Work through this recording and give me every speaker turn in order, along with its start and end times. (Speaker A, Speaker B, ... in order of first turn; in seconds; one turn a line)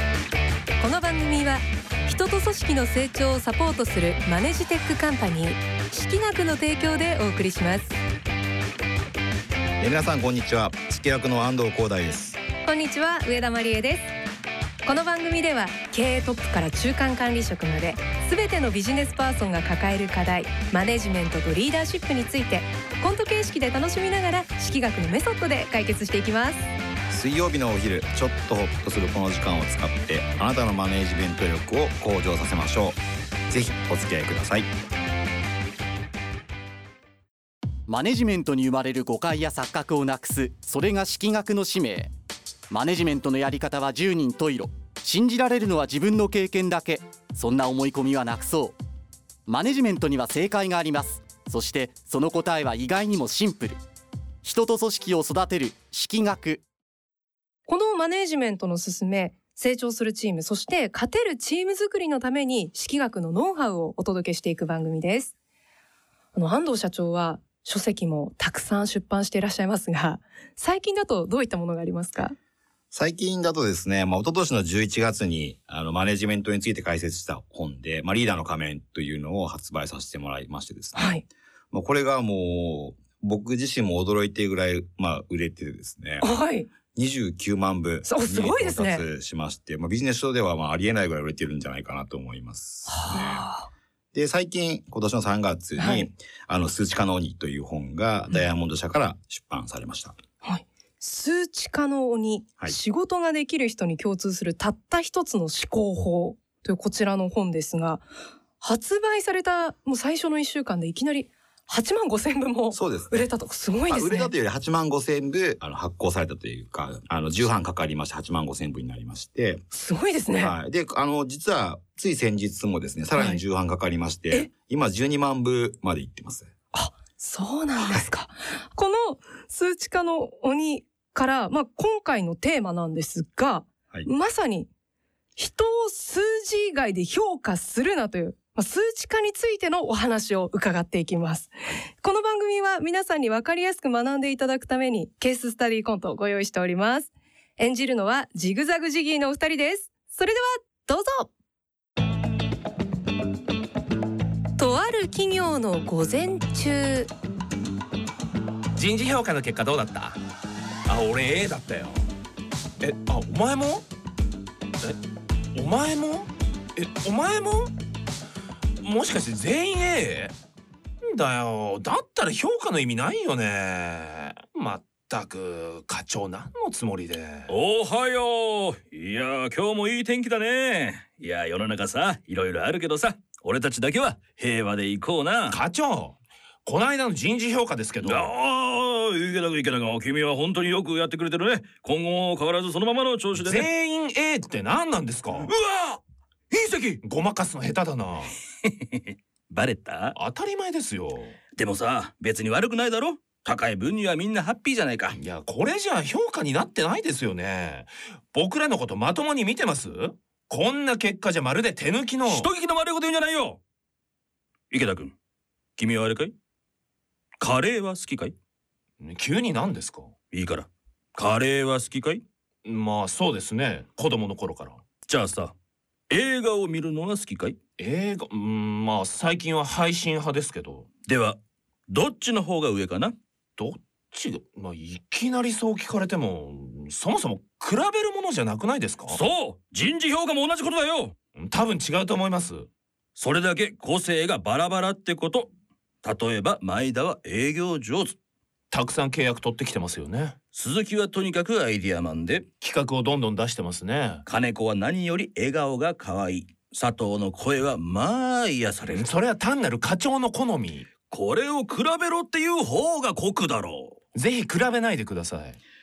Speaker A: 0.8-8.0
Speaker B: 9.8-12.4
Speaker A: 12.6-14.1
Speaker A: 14.8-26.7
Speaker B: 27.1-33.0
Speaker B: 33.5-34.7
Speaker C: 37.9-42.1
Speaker C: 42.7-48.8
Speaker C: 49.5-53.8
Speaker C: 54.4-56.6
Speaker A: 57.7-65.3
Speaker A: 66.3-72.3
Speaker B: 72.9-81.2
Speaker A: 80.9-81.2
Speaker B: 81.7-86.3
Speaker A: 86.2-86.7
Speaker B: 86.9-93.5
Speaker A: 88.0-89.0
Speaker A: 92.9-93.7
Speaker B: 94.1-100.2
Speaker A: 95.8-96.1
Speaker A: 100.4-108.1
Speaker A: 108.6-114.3
Speaker B: 112.7-113.3
Speaker B: 113.9-119.6
Speaker A: 119.7-120.5
Speaker B: 120.4-126.5
Speaker A: 123.2-123.4
Speaker A: 126.7-134.7
Speaker A: 135.4-151.3
Speaker A: 154.6-157.1
Speaker D: 158.8-160.2
Speaker D: 160.9-162.0
Speaker D: 162.8-163.8
Speaker D: 165.5-167.7
Speaker D: 168.8-170.3
Speaker D: 171.1-177.5
Speaker E: 177.5-185.6
Speaker D: 185.5-188.3
Speaker E: 188.0-193.7
Speaker D: 193.3-195.5
Speaker E: 195.4-196.0
Speaker E: 196.5-197.0
Speaker D: 197.0-198.4
Speaker E: 198.7-200.1
Speaker D: 200.2-201.4
Speaker E: 201.6-205.2
Speaker D: 205.2-212.5
Speaker E: 212.3-213.6
Speaker E: 214.7-215.2
Speaker E: 215.8-216.3
Speaker E: 217.4-218.3
Speaker D: 219.0-220.1
Speaker E: 220.3-222.2
Speaker D: 222.7-224.8
Speaker E: 225.1-225.6
Speaker E: 226.1-227.6
Speaker D: 227.8-230.9
Speaker E: 231.1-233.2
Speaker D: 233.6-239.2
Speaker E: 239.1-241.2
Speaker D: 241.4-242.7
Speaker E: 243.2-248.2
Speaker D: 248.7-250.4
Speaker E: 250.5-252.5
Speaker D: 252.6-254.2
Speaker E: 254.3-259.0
Speaker D: 258.9-260.9
Speaker E: 261.1-263.9
Speaker D: 264.1-265.6